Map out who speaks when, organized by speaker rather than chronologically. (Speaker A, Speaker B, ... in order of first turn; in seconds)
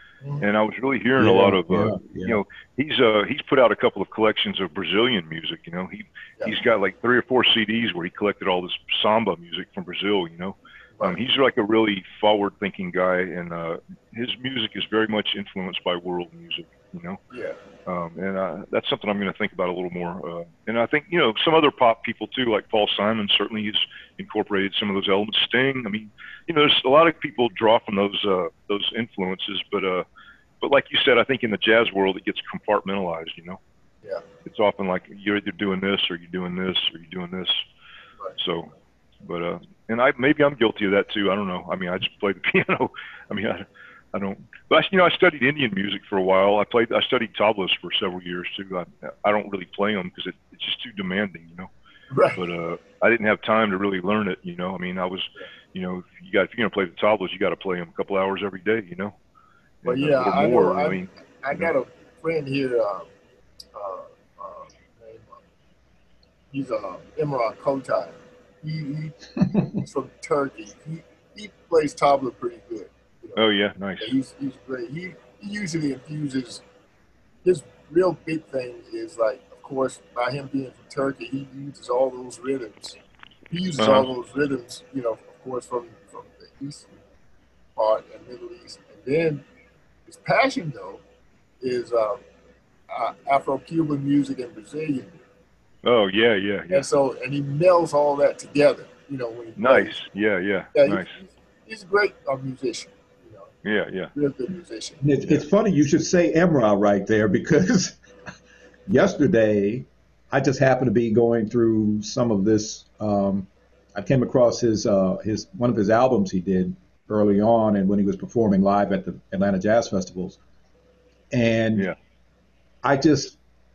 Speaker A: 0.4-17.2, 17.9-30.1, 30.6-33.6, 34.4-37.6, 38.4-38.7, 39.2-51.7, 52.4-59.1, 59.8-61.7, 73.3-74.1, 83.8-84.1, 95.8-96.9, 99.6-101.1, 103.6-104.1
Speaker B: 1.2-2.4, 105.0-108.0, 108.9-120.4, 121.3-121.9, 122.8-123.4
Speaker C: 17.3-17.6, 52.1-52.4, 59.9-63.1, 63.7-65.4, 66.5-73.4, 74.0-76.6, 77.4-83.0, 83.5-86.9, 87.8-89.5, 90.0-91.0, 91.6-92.2, 92.9-95.2, 96.7-100.0, 100.7-103.5, 104.1-105.0